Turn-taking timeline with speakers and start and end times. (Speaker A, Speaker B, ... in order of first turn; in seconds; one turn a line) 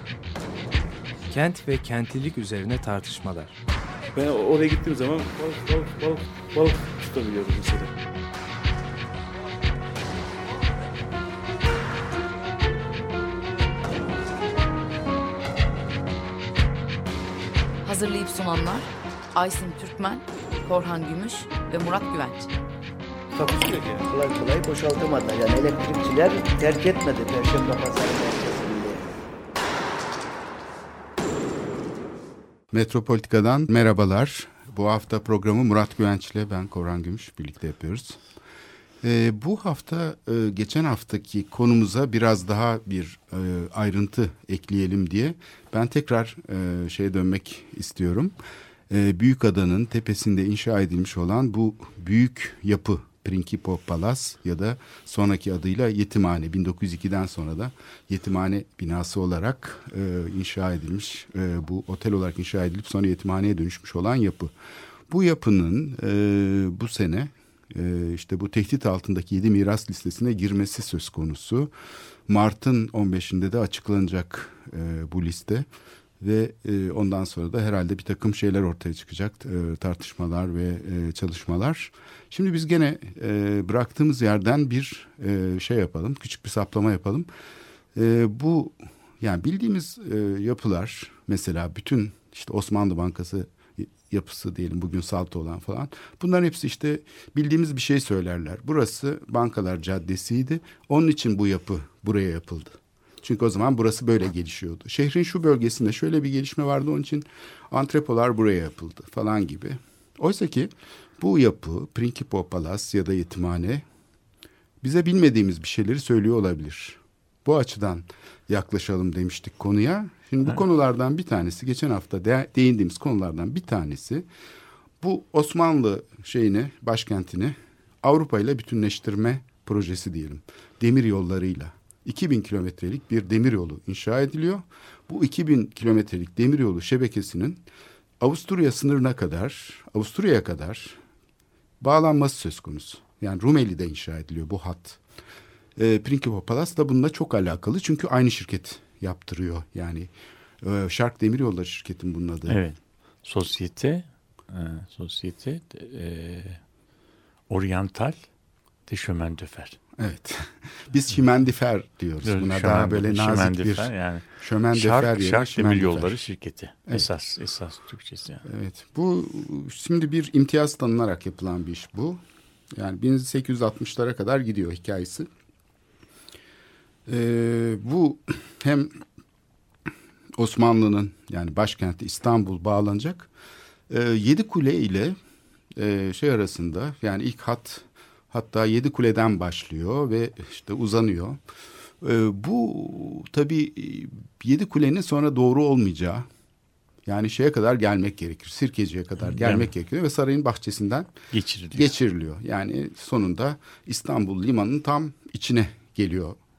Speaker A: 1.3-3.6
Speaker B: 4.1-7.9
Speaker C: 17.8-22.5
Speaker B: 23.3-24.1
Speaker D: 24.1-29.1
Speaker E: 32.7-38.2
Speaker E: 39.0-48.3
Speaker E: 48.9-64.5
Speaker E: 65.1-71.7
Speaker E: 72.3-75.7
Speaker E: 76.2-87.3
Speaker E: 88.0-113.8
Speaker E: 114.8-124.3
Speaker E: 125.0-137.6
Speaker E: 138.2-141.0
Speaker E: 141.8-145.0
Speaker E: 145.8-152.6
Speaker F: 152.5-156.6
Speaker F: 157.5-158.2
Speaker F: 158.9-159.8
Speaker E: 160.0-166.2
Speaker F: 162.2-168.4
Speaker E: 168.4-172.2
Speaker E: 172.8-175.3
Speaker E: 177.1-179.0
Speaker E: 180.4-183.3
Speaker E: 183.9-185.2
Speaker E: 185.8-191.4
Speaker E: 192.0-196.3
Speaker E: 197.1-201.1
Speaker F: 199.2-199.7
Speaker F: 201.3-201.9
Speaker E: 201.7-206.4